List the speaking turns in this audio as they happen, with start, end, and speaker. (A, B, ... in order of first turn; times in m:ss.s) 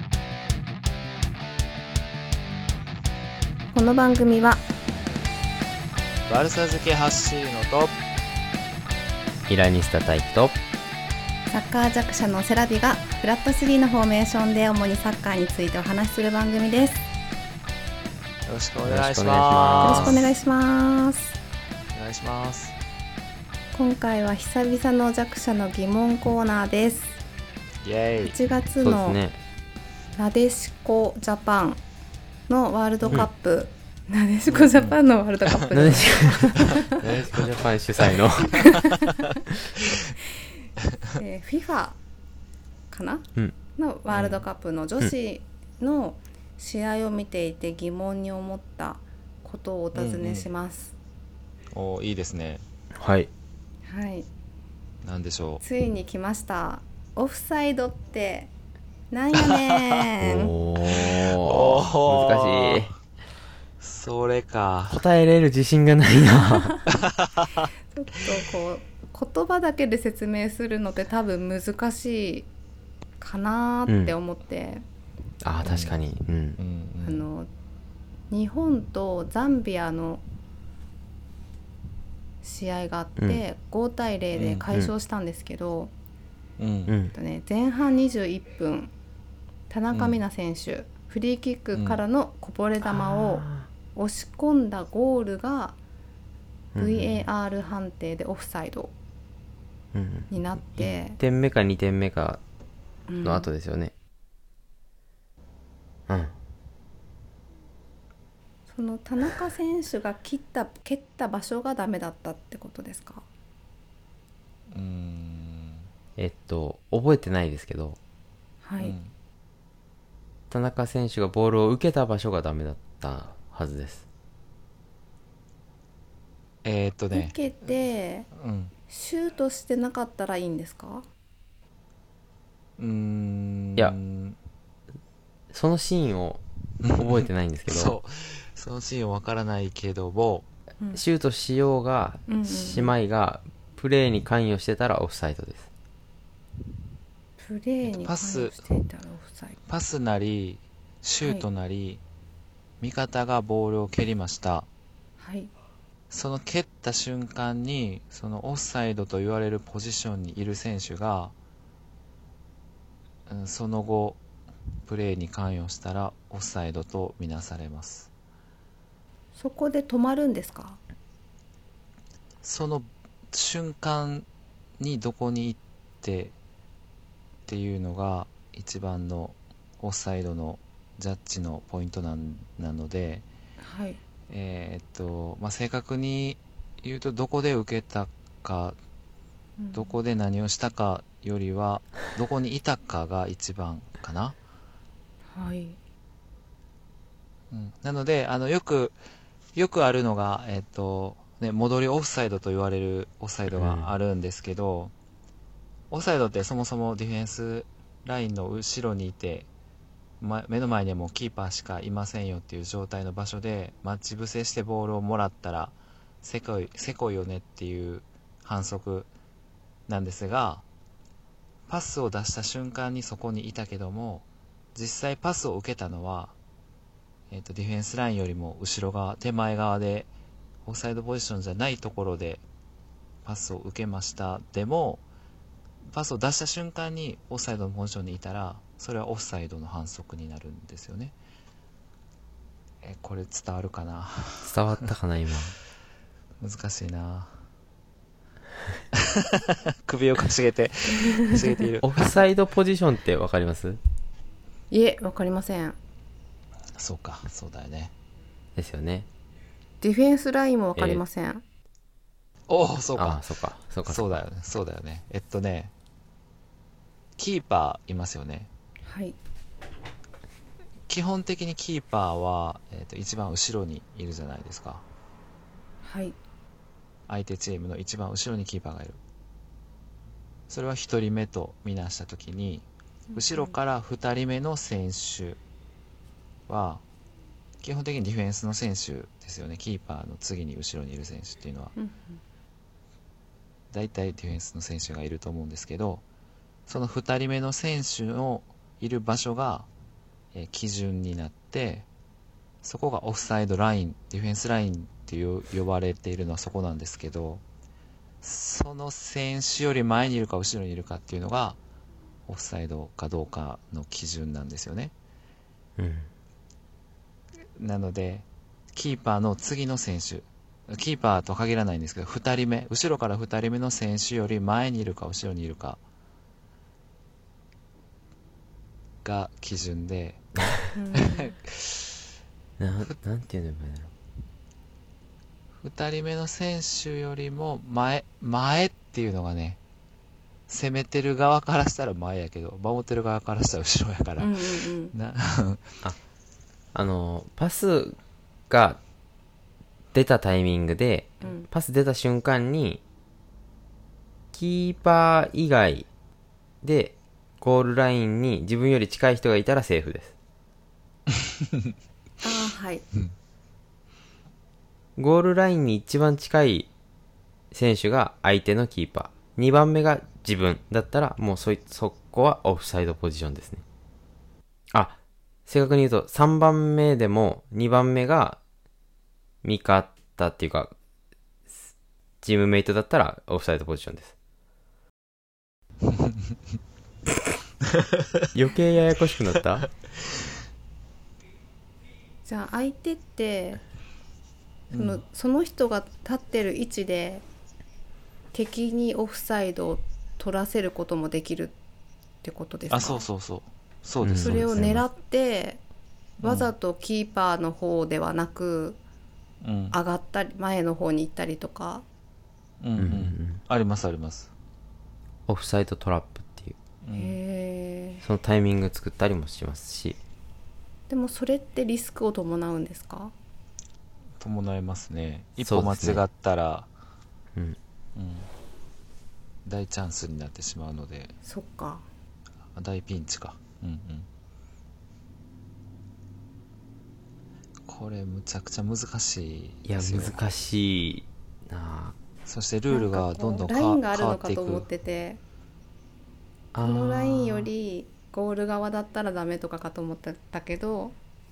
0:03.7-0:04.6 A
0:06.3-0:07.9 B
0:09.5-0:10.6 C
0:11.5-0:17.0 A
0:18.4-0:20.2 B
0:18.8-0:20.2 C
0:19.8-0:21.3 A
0:21.9-0:22.7 B
0:23.7-0:27.2 A
0:27.8-0:28.3 B
0:28.2-0:29.2 A
0:28.8-0:29.4 C
0:30.2-0:31.8 A
0:32.5-0:37.0 A
0:34.5-0:35.0 B
0:35.7-0:38.8 C
0:36.6-0:37.5 B
0:38.5-0:39.1 A
0:41.2-0:42.0 A
0:42.9-0:50.9 A
0:44.1-0:44.4 B
0:49.9-0:50.5 B
0:51.7-0:52.6 B
0:52.9-0:53.3 C
0:53.8-0:54.3 A
0:55.0-0:55.6 B
0:55.6-0:58.5 A
0:59.1-1:00.5 A
1:00.2-1:02.9 C
1:00.8-1:02.9 B
1:03.8-1:05.0 B
1:04.9-1:06.8 C
1:07.0-1:07.7 B
1:07.9-1:12.5 A
1:13.2-1:14.8 A
1:13.9-1:14.2 C
1:15.4-1:16.6 C
1:15.6-1:16.0 B
1:16.6-1:17.2 B
1:17.0-1:17.5 A
1:18.3-1:20.2 A
1:22.4-1:25.9 A
1:24.3-1:24.7 B
1:26.6-1:26.9 B
1:26.9-1:27.1 C
1:27.1-1:28.9 A
1:29.7-1:35.8 A
1:29.9-1:30.2 B
1:31.7-1:32.0 B
1:32.8-1:33.7 C
1:36.7-1:37.2 C
1:36.8-1:38.9 A
1:39.9-1:42.4 C
1:40.3-1:41.2 A
1:43.1-1:43.5 A
1:43.2-1:43.9 C
1:46.1-1:46.3 C
1:48.7-1:53.2 A
1:54.7-1:55.9 B
1:56.2-1:58.0 C
1:58.6-1:59.0 A
1:58.8-1:59.1 B
2:00.5-2:04.0 C
2:06.6-2:07.4 B
2:07.1-2:08.3 A
2:08.3-2:08.7 B
2:08.9-2:11.0 A
2:12.8-2:14.4 B
2:15.5-2:16.4 C
2:16.8-2:20.4 B
2:16.9-2:18.0 C
2:20.9-2:25.7 C
2:22.3-2:22.9 A
2:27.4-2:29.6 A
2:27.8-2:28.7 B
2:29.7-2:32.0 B
2:32.8-2:34.7 B
2:35.2-2:35.5 A
2:36.1-2:41.3 B
2:43.3-2:44.2 B
2:44.8-2:48.1 B
2:49.4-2:50.8 A
2:52.4-2:54.2 B
2:54.8-2:56.3 B
2:57.5-3:03.2 B
3:03.6-3:04.0 A
3:04.3-3:08.8 B
3:09.6-3:10.0 A
3:09.7-3:14.4 B
3:15.3-3:15.8 A
3:17.5-3:19.0 B
3:19.5-3:24.9 B
3:23.5-3:23.9 C
3:25.9-3:29.5 B
3:30.2-3:39.1 B
3:39.9-3:40.6 B
3:41.7-3:46.3 B
3:47.3-3:50.1 B
3:50.6-3:52.4 B
3:53.2-3:55.0 B
3:55.9-4:01.1 B
4:02.8-4:04.9 B
4:04.4-4:05.5 C
4:06.4-4:07.3 B
4:09.0-4:12.2 B
4:11.8-4:13.8 C
4:14.7-4:15.8 A
4:16.8-4:17.9 B
4:18.6-4:19.1 C
4:19.8-4:21.4 A
4:20.8-4:21.0 C
4:22.5-4:23.2 B
4:22.9-4:24.2 C
4:23.8-4:25.7 B
4:27.2-4:28.5 B
4:28.8-4:29.2 A
4:30.9-4:34.8 B
4:35.8-4:36.2 A
4:37.1-4:39.0 B
4:40.5-4:45.4 B
4:43.1-4:43.6 A
4:46.5-4:46.8 B
4:47.6-4:51.7 B
4:51.8-4:52.2 A
4:53.7-4:56.0 B
4:56.7-4:59.7 B
5:00.3-5:01.8 B
5:02.6-5:07.4 B
5:08.2-5:11.6 B
5:12.3-5:14.9 B
5:15.8-5:16.1 C
5:17.6-5:25.8 B
5:29.0-5:30.2 B
5:30.7-5:31.4 A
5:30.9-5:31.9 B
5:32.6-5:33.9 C
5:35.6-5:39.6 B
5:40.5-5:45.6 B
5:44.2-5:44.9 A
5:46.7-5:48.0 C
5:48.5-5:48.8 C
5:49.9-5:52.8 C
5:51.2-5:51.5 A
5:54.3-5:55.9 C
5:56.6-6:00.1 C
6:02.2-6:02.8 A
6:05.0-6:06.7 C
6:07.5-6:13.6 C
6:14.7-6:18.4 C
6:19.4-6:20.7 C
6:22.2-6:24.1 C
6:28.3-6:29.7 C
6:32.2-6:33.6 A
6:34.7-6:35.0 B
6:34.7-6:37.2 A
6:38.3-6:41.5 A
6:42.2-6:43.0 A
6:42.7-6:44.5 B
6:44.0-6:44.8 C
6:44.2-6:45.6 A
6:46.2-6:48.8 A
6:46.2-6:46.5 B
6:49.4-6:49.8 B
6:49.7-6:51.8 A
6:52.6-6:54.3 B
6:52.8-6:53.4 C
6:55.3-6:56.6 C
6:56.8-6:57.2 B
6:57.0-6:58.0 A
6:58.0-7:00.0 C
7:00.9-7:03.1 A
7:04.2-7:06.7 B
7:05.4-7:06.0 C
7:07.9-7:08.3 B
7:09.4-7:11.1 B
7:11.2-7:11.8 A
7:12.5-7:14.1 B
7:17.7-7:20.2 B
7:19.6-7:22.0 C
7:22.2-7:24.6 B
7:22.7-7:25.2 A
7:26.5-7:27.5 C
7:26.6-7:31.0 A